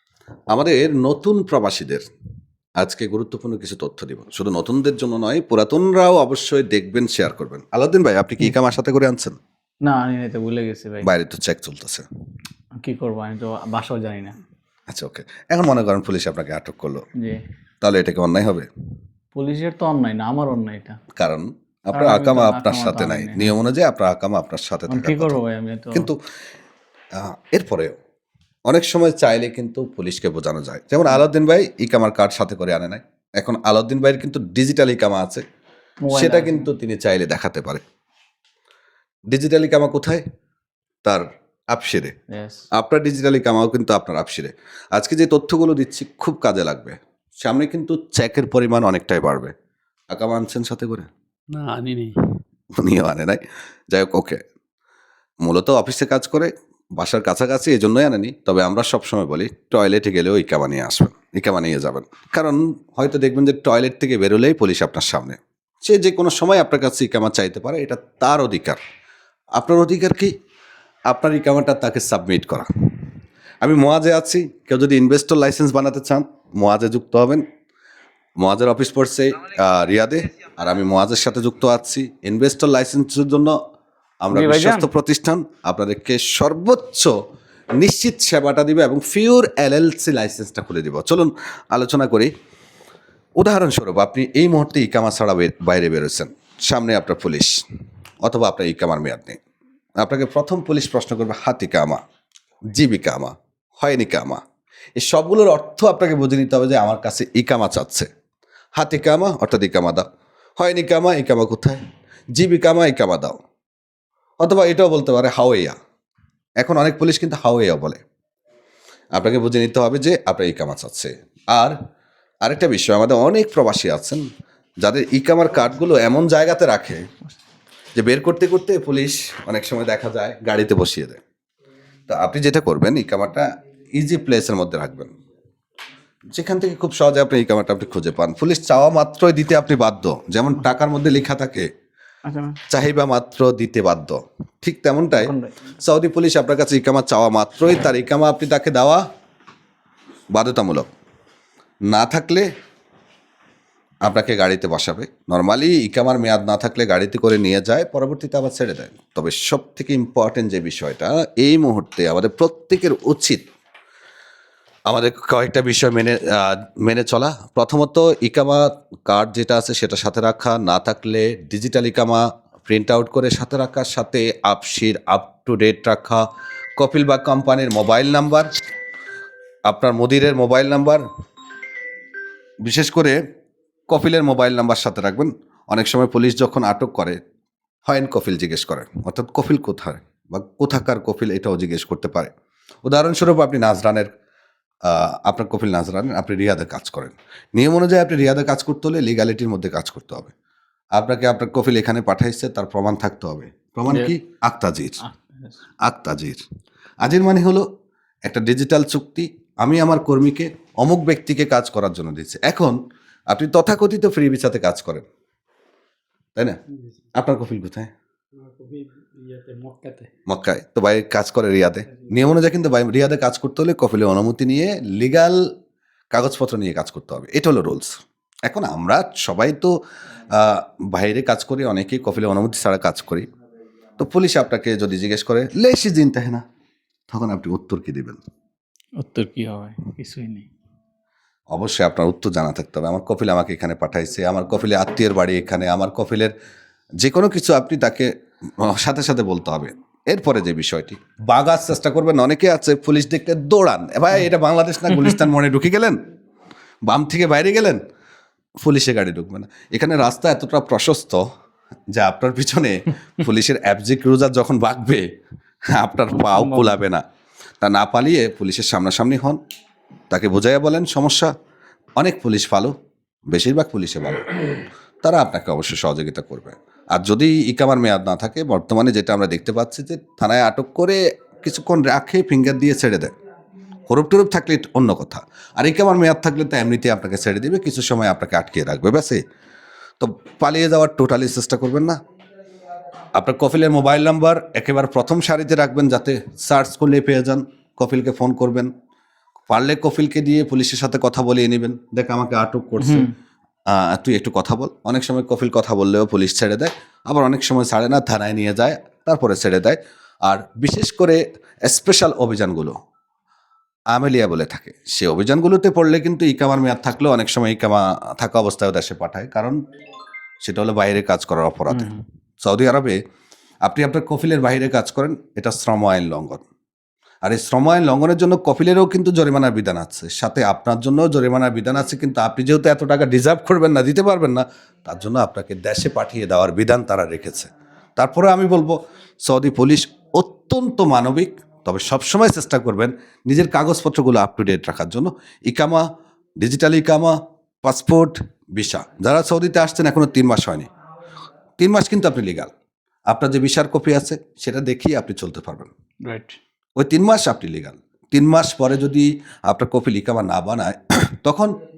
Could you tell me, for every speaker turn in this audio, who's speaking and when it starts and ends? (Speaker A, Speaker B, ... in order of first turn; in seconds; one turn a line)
Speaker A: 0.5-2.0
Speaker A: 2.8-9.3
Speaker B: 9.8-11.1
Speaker A: 11.0-12.0
Speaker B: 12.8-14.3
Speaker A: 14.9-17.1
Speaker B: 17.2-17.4
Speaker A: 17.8-18.7
Speaker B: 19.3-21.0
Speaker A: 21.1-25.4
Speaker B: 21.9-23.5
Speaker B: 24.9-26.1
Speaker A: 25.9-26.2
Speaker A: 27.1-27.9
Speaker A: 28.7-35.5
Speaker B: 36.0-36.7
Speaker A: 36.1-37.8
Speaker A: 39.3-40.2
Speaker A: 41.0-42.1
Speaker B: 42.3-42.6
Speaker A: 42.7-49.5
Speaker A: 50.1-51.1
Speaker C: 51.5-52.1
Speaker B: 51.6-51.9
Speaker A: 52.8-53.4
Speaker A: 53.9-54.4
Speaker A: 55.4-68.8
Speaker A: 69.5-70.3
Speaker A: 71.1-72.7
Speaker A: 73.6-77.4
Speaker A: 78.4-83.5
Speaker A: 84.2-87.1
Speaker B: 84.3-84.9
Speaker A: 87.8-92.3
Speaker A: 93.4-97.6
Speaker A: 98.2-99.4
Speaker A: 100.0-102.0
Speaker A: 102.7-104.4
Speaker A: 105.0-108.1
Speaker A: 108.8-110.0
Speaker A: 110.6-111.8
Speaker A: 112.3-113.4
Speaker A: 114.4-115.7
Speaker A: 116.6-118.0
Speaker A: 119.1-121.7
Speaker A: 122.4-124.2
Speaker A: 124.8-127.0
Speaker A: 128.0-131.2
Speaker A: 132.1-135.1
Speaker A: 136.3-141.7
Speaker B: 142.2-142.6
Speaker A: 142.7-149.0
Speaker B: 145.1-145.5
Speaker A: 150.3-150.9
Speaker A: 151.9-152.5
Speaker A: 154.0-163.4
Speaker A: 164.9-176.2
Speaker A: 176.8-178.5
Speaker A: 179.7-181.0
Speaker A: 182.6-183.2
Speaker A: 183.9-187.2
Speaker A: 187.9-192.3
Speaker A: 192.8-194.1
Speaker A: 194.8-200.3
Speaker A: 200.9-205.0
Speaker B: 203.9-204.1
Speaker B: 205.0-205.5
Speaker A: 205.8-206.4
Speaker A: 207.0-207.6
Speaker A: 208.2-215.1
Speaker A: 217.2-217.9
Speaker C: 218.4-220.0
Speaker B: 218.9-220.0
Speaker A: 220.3-225.4
Speaker A: 226.1-227.9
Speaker A: 228.4-229.7
Speaker A: 230.3-233.2
Speaker A: 234.0-236.4
Speaker A: 237.1-238.2
Speaker B: 239.0-240.5
Speaker A: 241.5-246.3
Speaker A: 247.0-256.0
Speaker B: 254.9-255.2
Speaker A: 256.9-257.8
Speaker A: 258.6-261.2
Speaker A: 261.9-265.1
Speaker A: 265.7-267.0
Speaker B: 266.2-266.8
Speaker A: 267.6-269.4
Speaker A: 270.1-271.3
Speaker A: 272.0-272.7
Speaker A: 273.3-283.1
Speaker A: 283.9-289.2
Speaker A: 290.0-292.0
Speaker A: 293.1-298.7
Speaker A: 299.5-303.1
Speaker B: 302.8-303.1
Speaker A: 303.7-312.8
Speaker A: 313.9-319.6
Speaker A: 320.4-321.9
Speaker B: 321.7-322.0
Speaker A: 322.4-323.0
Speaker A: 323.6-326.4
Speaker A: 327.2-345.8
Speaker A: 346.4-350.7
Speaker A: 351.6-352.5
Speaker A: 353.1-355.7
Speaker B: 356.0-356.4
Speaker A: 356.8-361.6